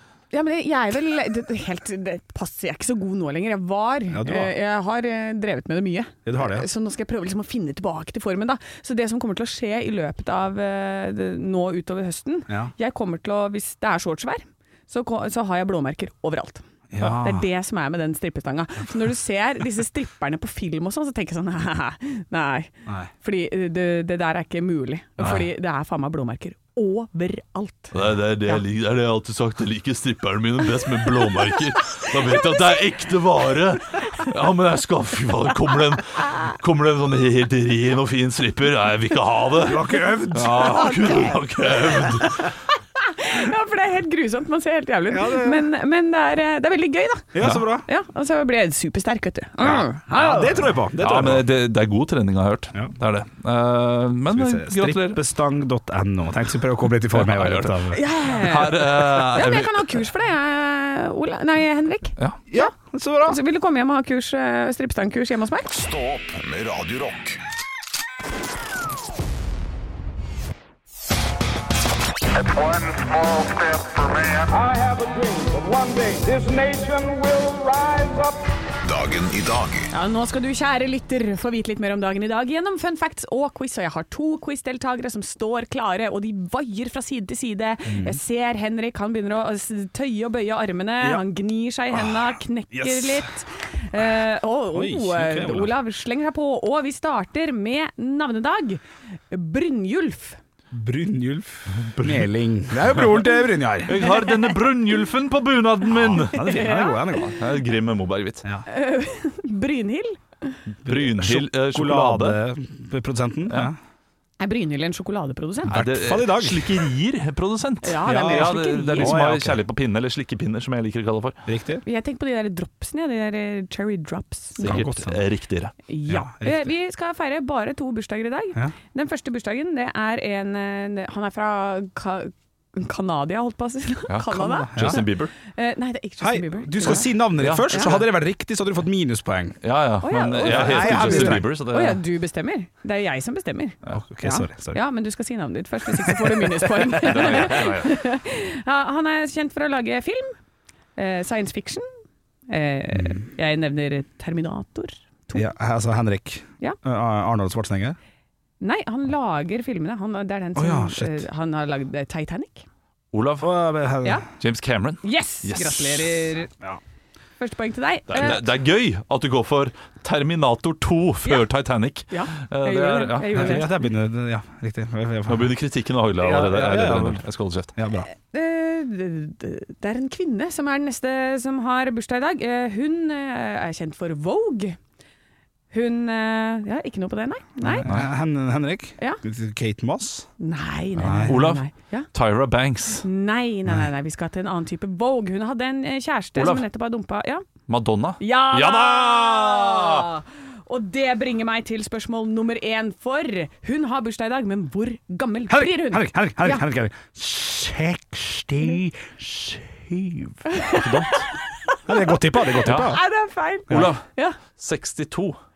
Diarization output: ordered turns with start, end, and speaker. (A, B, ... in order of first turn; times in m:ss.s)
0:00.3-0:28.6 A
0:04.1-0:04.5 B
0:06.2-0:06.6 B
0:16.9-0:17.4 B
0:27.9-0:42.5 C
0:39.6-0:41.2 B
0:40.5-0:50.7 A
0:45.1-0:45.6 B
0:47.3-0:47.9 B
0:49.6-0:51.4 B
0:51.0-0:55.2 C
0:54.3-0:58.0 B
0:57.1-0:59.9 C
0:57.9-1:02.7 A
1:02.5-1:03.4 B
1:03.2-1:05.7 A
1:05.7-1:07.4 D
1:14.7-1:18.3 E
1:18.8-1:19.9 D
1:19.9-1:40.4 A
1:27.8-1:28.2 B
1:31.9-1:33.3 B
1:34.7-1:35.7 B
1:40.7-1:44.0 B
1:41.7-1:42.3 C
1:43.8-1:46.6 C
1:45.9-1:47.3 B
1:46.3-1:47.2 A
1:47.2-1:48.4 C
1:48.7-1:50.6 A
1:50.7-1:52.4 C
1:50.8-1:53.8 B
1:54.4-1:55.8 A
1:55.7-1:56.9 B
1:55.7-2:01.4 C
1:57.8-1:59.2 A
1:58.0-1:59.6 B
2:01.5-2:01.8 B
2:01.8-2:04.8 A
2:04.6-2:05.7 C
2:04.6-2:05.2 B
2:05.9-2:17.1 A
2:06.1-2:06.7 B
2:14.1-2:15.3 C
2:14.4-2:15.0 B
2:16.2-2:19.6 B
2:17.4-2:18.0 C
2:17.7-2:17.9 A
2:19.6-2:22.0 C
2:20.0-2:30.4 A
2:20.4-2:21.5 B
2:23.9-2:24.8 B
2:26.0-2:27.6 B
2:27.0-2:28.0 C
2:31.0-2:31.9 A
2:32.5-2:35.4 A
2:32.9-2:33.2 B
2:35.3-2:38.0 B
2:38.6-2:42.6 A
2:40.6-2:41.2 B
2:43.1-2:43.5 C
2:43.4-2:44.2 B
2:44.4-2:46.3 C
2:45.0-2:46.5 A
2:47.4-2:48.4 A
2:48.1-2:53.6 C
2:52.1-2:53.8 A
2:53.3-2:55.5 B
2:55.3-2:57.7 C
2:56.2-2:57.2 B
2:57.8-2:58.1 B
2:58.1-3:04.8 A
3:05.7-3:07.9 A
3:07.6-3:10.3 B
3:10.4-3:12.1 A
3:11.0-3:11.4 B
3:11.2-3:13.0 C
3:13.0-3:17.4 A
3:16.4-3:16.6 C
3:17.7-3:20.1 C
3:18.2-3:26.6 A
3:25.5-3:30.4 B
3:30.5-3:30.8 A
3:30.7-3:31.3 C
3:31.6-3:34.4 A
3:31.8-3:33.0 B
3:32.6-3:33.0 C
3:33.7-3:35.4 C